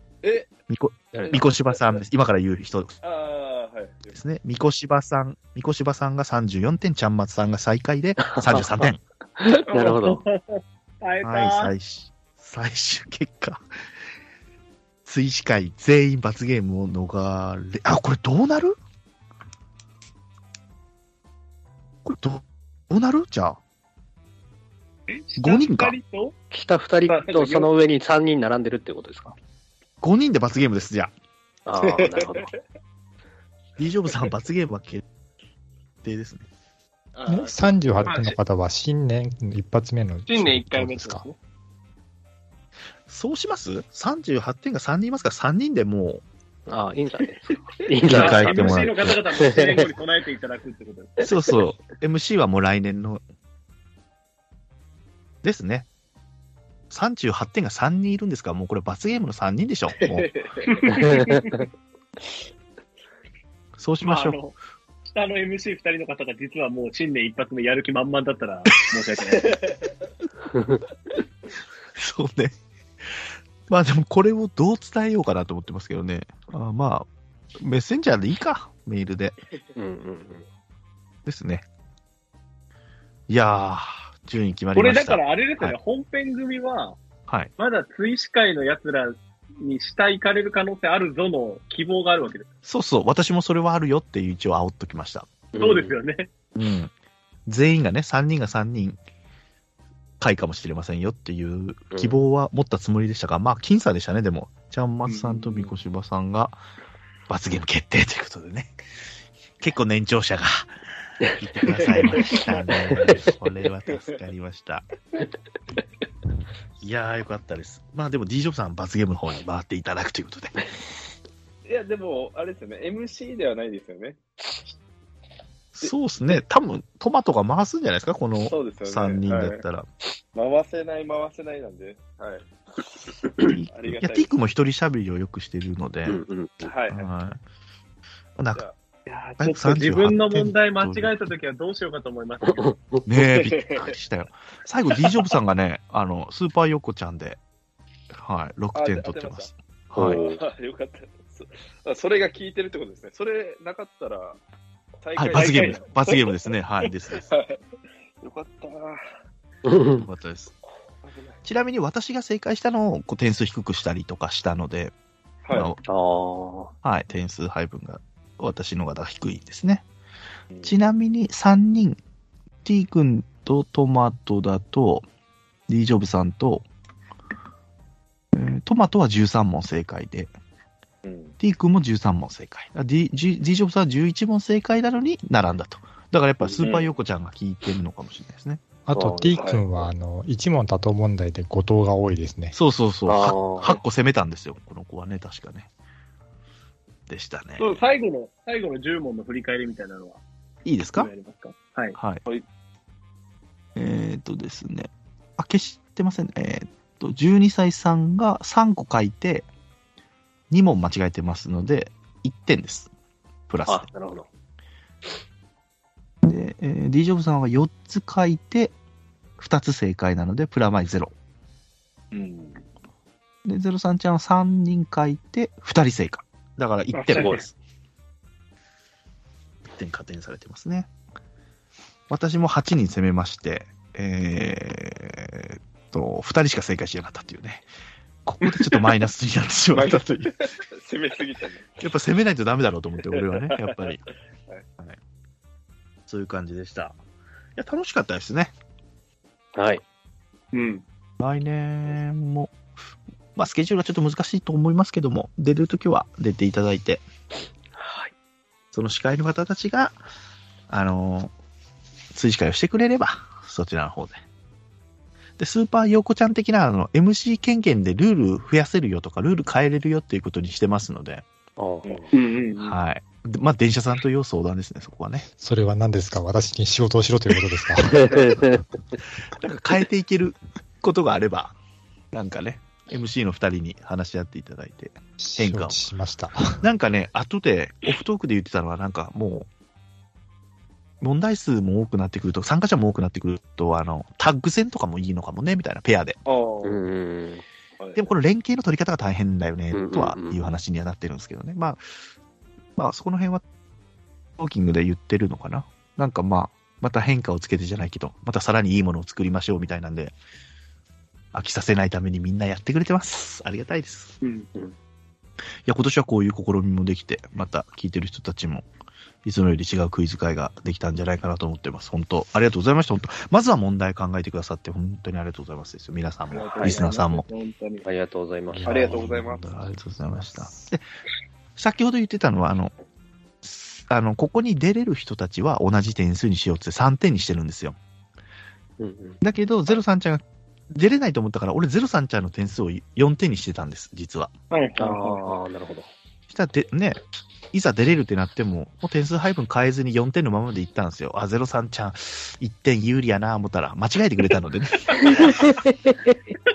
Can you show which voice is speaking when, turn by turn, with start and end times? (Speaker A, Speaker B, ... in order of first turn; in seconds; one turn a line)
Speaker A: 0.2-0.5
Speaker B: 0.7-3.0
Speaker C: 1.1-1.5
Speaker A: 1.7-2.0
Speaker A: 3.0-4.2
Speaker B: 4.1-9.0
Speaker C: 8.2-10.2
Speaker D: 9.7-11.7
Speaker B: 11.2-13.6
Speaker B: 15.1-18.8
Speaker B: 22.1-23.6
Speaker D: 25.1-26.4
Speaker B: 25.4-26.0
Speaker C: 26.5-29.4
Speaker D: 27.1-27.7
Speaker B: 30.0-31.1
Speaker C: 31.7-32.5
Speaker A: 31.8-32.6
Speaker B: 33.8-35.0
Speaker B: 36.0-36.5
Speaker A: 37.1-37.6
Speaker E: 37.3-41.3
Speaker D: 38.0-38.4
Speaker D: 40.3-41.4
Speaker B: 43.1-46.2
Speaker C: 46.7-50.0
Speaker B: 48.0-49.2
Speaker D: 48.1-51.3
Speaker B: 51.2-53.2
Speaker B: 55.4-55.9
Speaker B: 56.9-60.3
Speaker A: 59.9-61.0
Speaker D: 60.7-61.6
Speaker C: 61.0-61.5
Speaker B: 63.8-64.4
Speaker D: 64.0-64.6
Speaker D: 65.1-69.6
Speaker A: 69.3-69.8
Speaker C: 70.5-70.8
Speaker B: 72.0-72.5
Speaker B: 73.7-77.1
Speaker B: 77.6-79.4
Speaker C: 79.8-80.5
Speaker B: 81.3-81.7
Speaker B: 83.3-85.8
Speaker D: 84.7-87.0
Speaker D: 87.6-92.5
Speaker B: 92.7-95.3
Speaker C: 95.5-96.0
Speaker D: 95.6-96.3
Speaker B: 96.6-96.9
Speaker B: 97.5-99.0
Speaker B: 100.2-106.6
Speaker C: 101.9-102.2
Speaker D: 105.1-105.4
Speaker B: 107.3-108.7
Speaker B: 109.6-110.7
Speaker C: 111.2-112.3
Speaker B: 111.4-114.9
Speaker C: 112.9-113.4
Speaker A: 113.9-114.2
Speaker B: 116.8-120.6
Speaker A: 121.7-124.2
Speaker B: 125.8-129.9
Speaker A: 125.8-126.4
Speaker A: 128.4-129.6
Speaker A: 130.3-132.5
Speaker A: 133.2-134.3
Speaker B: 133.4-136.2
Speaker C: 136.1-136.7
Speaker A: 136.6-137.1
Speaker B: 136.9-137.4
Speaker B: 138.4-138.6
Speaker D: 139.1-142.6
Speaker B: 139.4-141.3
Speaker C: 142.4-143.1
Speaker B: 143.1-147.4
Speaker A: 143.2-144.0
Speaker B: 148.1-150.2
Speaker A: 148.7-149.5
Speaker C: 149.9-150.4
Speaker A: 150.1-154.4
Speaker A: 155.0-156.5
Speaker B: 155.2-157.3
Speaker D: 155.4-155.8
Speaker A: 157.1-157.6
Speaker A: 158.2-159.0
Speaker C: 159.7-160.1
Speaker B: 160.0-160.5
Speaker A: 161.1-161.4
Speaker B: 161.4-164.9
Speaker A: 165.4-165.7
Speaker B: 165.5-165.8
Speaker C: 165.8-166.7
Speaker B: 166.8-169.8
Speaker B: 170.6-172.0
Speaker B: 172.7-175.1
Speaker B: 175.7-176.7
Speaker B: 178.3-180.3
Speaker A: 181.1-181.4
Speaker B: 181.4-188.7
Speaker E: 188.9-192.6
Speaker C: 188.9-189.4
Speaker A: 189.3-189.9
Speaker B: 192.5-195.7
Speaker C: 193.1-193.8
Speaker B: 197.1-197.8
Speaker D: 197.6-200.2
Speaker B: 200.7-201.1
Speaker D: 200.9-202.0
Speaker B: 202.0-202.3
Speaker B: 203.8-209.5
Speaker B: 210.5-212.9
Speaker B: 213.5-213.9
Speaker C: 213.7-214.3
Speaker B: 216.2-218.8
Speaker B: 219.4-221.1
Speaker A: 222.1-222.6
Speaker B: 223.4-227.5
Speaker D: 226.9-227.4
Speaker C: 227.1-227.4
Speaker B: 229.7-230.9
Speaker B: 232.1-237.7
Speaker B: 238.2-240.4
Speaker D: 238.4-238.8
Speaker A: 239.7-241.9
Speaker B: 241.8-244.0
Speaker A: 243.1-244.6
Speaker B: 246.1-247.0
Speaker B: 247.6-248.5
Speaker C: 249.6-249.8
Speaker D: 250.5-250.8
Speaker B: 251.2-252.6
Speaker B: 253.4-257.1
Speaker C: 257.8-258.1
Speaker B: 258.7-260.0
Speaker B: 260.7-261.3
Speaker B: 262.1-264.2
Speaker B: 265.4-271.2
Speaker C: 271.6-272.1
Speaker D: 272.1-272.8
Speaker B: 272.6-275.3
Speaker E: 275.4-278.4
Speaker C: 277.9-278.6
Speaker B: 279.4-281.6
Speaker B: 282.1-285.8
Speaker E: 285.2-286.6
Speaker B: 286.6-289.5
Speaker B: 291.0-296.2
Speaker A: 296.3-296.8
Speaker C: 296.6-297.4
Speaker A: 297.8-298.2
Speaker B: 298.0-301.8
Speaker C: 299.7-300.4
Speaker B: 302.8-303.4
Speaker B: 304.4-310.1
Speaker B: 311.3-314.1
Speaker B: 315.7-318.7
Speaker B: 319.2-327.2
Speaker D: 326.3-327.9
Speaker C: 326.6-326.9
Speaker C: 327.9-329.0
Speaker B: 328.5-330.8
Speaker A: 328.6-329.4
Speaker B: 331.6-332.7
Speaker B: 333.4-337.8
Speaker C: 338.8-339.2
Speaker B: 339.2-344.3
Speaker D: 344.5-345.4
Speaker C: 344.8-345.9
Speaker B: 346.3-347.0
Speaker B: 347.5-355.3
Speaker D: 354.9-355.5
Speaker C: 355.2-356.2